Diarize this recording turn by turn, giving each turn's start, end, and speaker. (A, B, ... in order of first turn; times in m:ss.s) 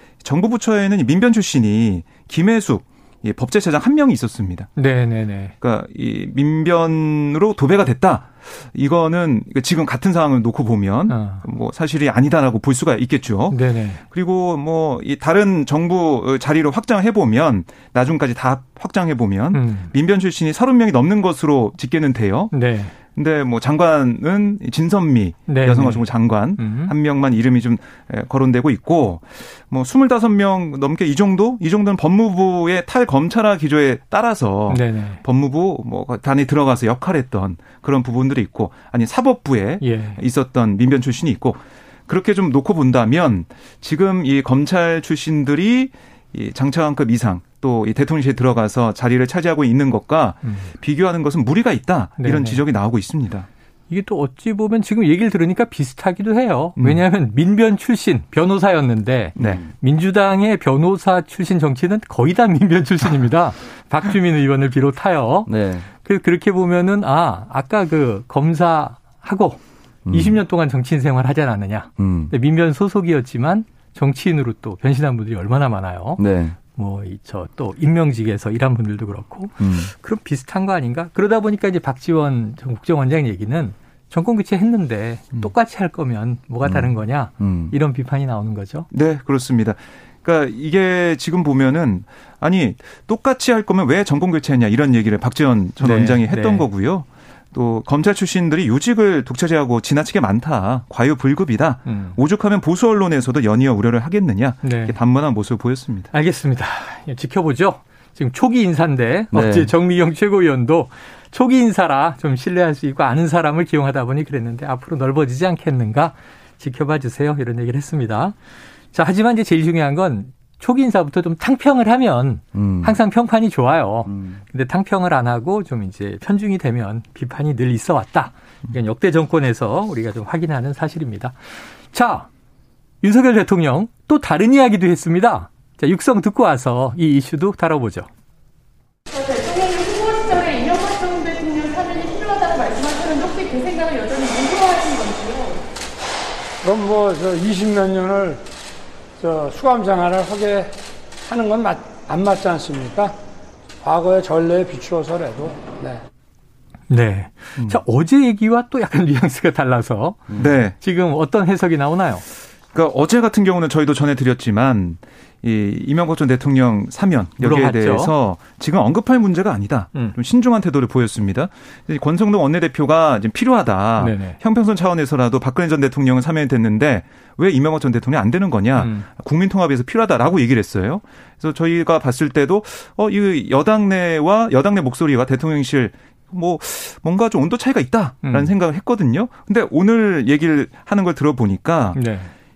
0:00.2-0:04.7 A
0:04.8-0:05.5 B
0:05.6-0:22.5 A
0:11.1-0:11.4 B
0:13.5-0:14.0 B
0:19.5-0:19.9 B
0:22.5-0:22.9 B
0:23.1-0:53.5 A
0:25.5-0:26.0 B
0:26.6-0:26.9 B
0:34.7-0:35.2 B
0:39.8-0:40.2 B
0:50.4-0:50.7 B
0:52.2-0:52.6 B
0:53.9-1:09.6 B
0:56.8-0:57.0 A
0:59.4-0:59.7 C
1:05.5-1:05.9 C
1:10.1-1:10.4 C
1:10.1-1:28.9 B
1:12.0-1:12.3 C
1:16.2-1:16.6 C
1:19.6-1:19.9 C
1:26.6-1:27.7 C
1:28.9-1:46.1 A
1:35.8-1:36.6 B
1:41.9-1:42.2 B
1:44.6-1:45.0 B
1:46.1-1:58.4 B
1:49.3-1:49.7 C
1:58.9-2:12.3 B
2:02.5-2:03.0 C
2:04.1-2:04.4 C
2:13.0-2:18.1 B
2:19.9-2:21.9 D
2:22.4-2:25.5 D
2:26.6-2:28.4 E
2:29.2-2:33.1 E
2:33.8-2:36.0 E
2:36.9-2:42.2 B
2:40.4-2:40.8 A
2:42.7-3:12.0 A
2:47.4-2:48.1 B
2:54.0-2:54.4 B
2:58.8-2:59.1 B
3:08.2-3:08.5 B
3:11.9-3:12.3 B